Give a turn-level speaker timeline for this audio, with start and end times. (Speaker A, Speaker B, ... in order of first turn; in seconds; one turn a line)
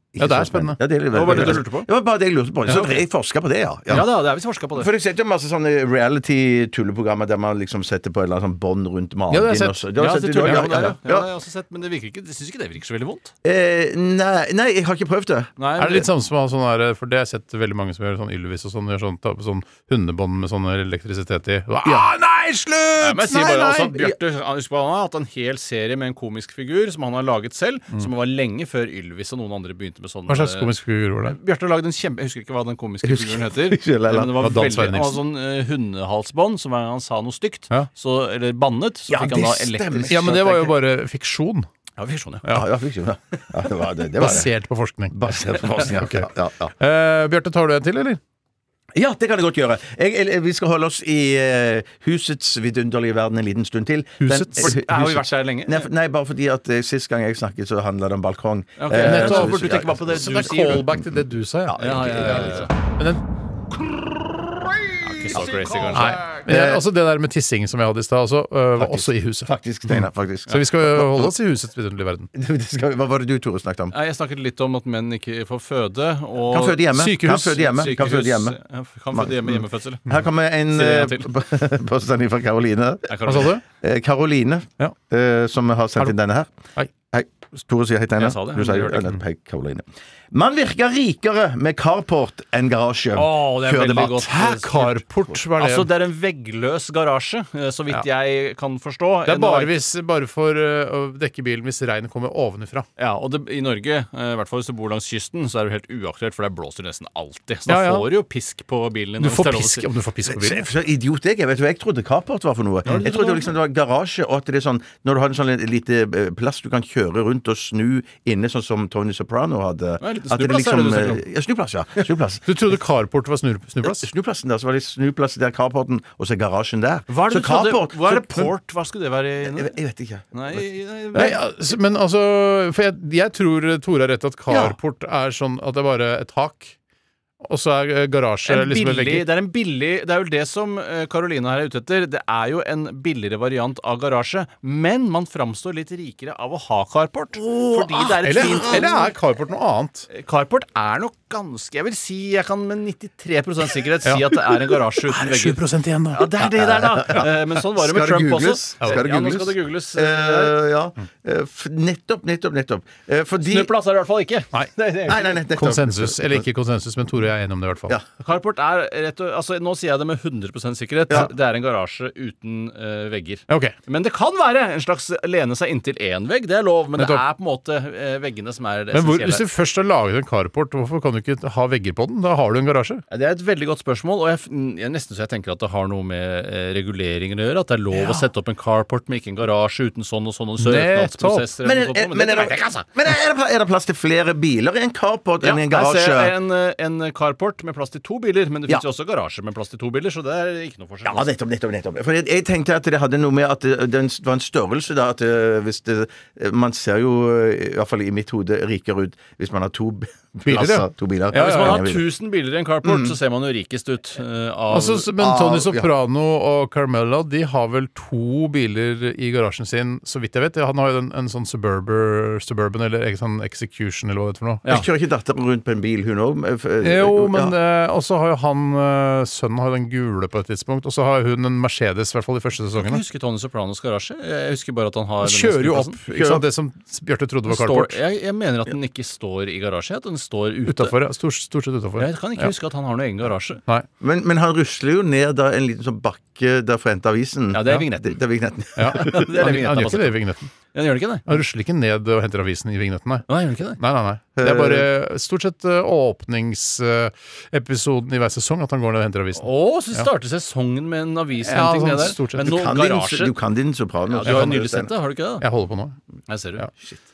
Speaker A: 0.1-4.1
Speaker B: 0.2-1.6
Speaker C: 1.1-1.9
Speaker C: 2.7-3.0
Speaker C: 3.9-4.9
Speaker A: 4.8-11.3
Speaker B: 9.3-9.8
Speaker C: 10.0-13.3
Speaker B: 10.4-10.9
Speaker A: 13.4-15.5
Speaker C: 15.6-16.1
Speaker B: 15.8-24.0
Speaker C: 23.0-30.7
Speaker B: 30.3-31.4
Speaker C: 31.2-40.4
Speaker A: 33.0-34.4
Speaker B: 34.3-35.2
Speaker A: 39.1-40.7
Speaker B: 40.1-41.7
Speaker C: 42.0-42.5
Speaker A: 42.5-44.5
Speaker B: 44.2-45.2
Speaker A: 45.1-46.7
Speaker B: 45.7-48.2
Speaker A: 49.0-61.0
Speaker B: 54.2-54.8
Speaker C: 54.6-55.9
Speaker C: 58.8-60.9
Speaker B: 58.9-63.2
Speaker A: 61.7-62.7
Speaker C: 61.8-62.7
Speaker C: 65.0-66.2
Speaker A: 65.3-66.8
Speaker B: 65.9-72.3
Speaker A: 68.8-71.3
Speaker A: 72.3-73.9
Speaker C: 73.9-80.1
Speaker A: 76.5-78.6
Speaker B: 76.9-77.8
Speaker A: 79.1-83.0
Speaker C: 80.7-81.3
Speaker C: 83.1-83.6
Speaker B: 83.3-83.6
Speaker A: 83.8-86.5
Speaker A: 87.1-94.3
Speaker C: 88.2-89.1
Speaker C: 93.2-95.0
Speaker B: 94.0-95.9
Speaker C: 95.5-99.7
Speaker B: 99.3-102.9
Speaker C: 103.0-109.9
Speaker B: 107.7-108.1
Speaker B: 109.2-110.7
Speaker A: 110.3-122.4
Speaker C: 112.9-113.5
Speaker B: 112.9-113.5
Speaker C: 120.0-121.2
Speaker B: 122.5-124.1
Speaker A: 123.8-128.4
Speaker C: 127.1-129.8
Speaker A: 129.5-130.4
Speaker C: 130.3-131.4
Speaker B: 131.1-136.8
Speaker A: 134.5-134.8
Speaker B: 137.4-139.3
Speaker C: 138.5-149.1
Speaker A: 147.4-148.9
Speaker B: 148.2-150.1
Speaker C: 150.1-160.6
Speaker B: 154.1-154.5
Speaker B: 155.0-156.5
Speaker A: 156.6-163.7
Speaker C: 163.4-165.4
Speaker A: 165.1-166.4
Speaker B: 165.5-168.0
Speaker C: 168.2-179.5
Speaker B: 173.5-173.8
Speaker B: 177.0-177.2
Speaker B: 178.9-183.0
Speaker C: 183.1-192.9
Speaker B: 187.9-188.3
Speaker B: 190.6-191.5
Speaker A: 191.6-196.3
Speaker C: 195.4-201.3
Speaker A: 201.1-212.1
Speaker B: 210.5-211.9
Speaker C: 211.3-215.1
Speaker A: 212.8-213.2
Speaker B: 214.7-224.7
Speaker A: 215.2-215.9
Speaker A: 224.7-227.5
Speaker B: 226.8-233.0
Speaker C: 232.8-236.0
Speaker B: 235.2-238.0
Speaker A: 236.1-236.4
Speaker C: 237.5-240.9
Speaker B: 240.7-242.5
Speaker C: 242.0-243.6
Speaker A: 244.0-249.2
Speaker C: 247.5-248.2
Speaker B: 248.8-250.5
Speaker C: 248.9-250.2
Speaker C: 250.7-251.3
Speaker B: 251.3-260.1
Speaker C: 253.3-253.8
Speaker A: 254.4-254.9
Speaker C: 259.4-263.4
Speaker B: 261.4-262.6
Speaker A: 262.4-264.9
Speaker C: 264.1-265.4
Speaker B: 264.2-264.6
Speaker B: 265.4-266.0
Speaker C: 266.3-266.7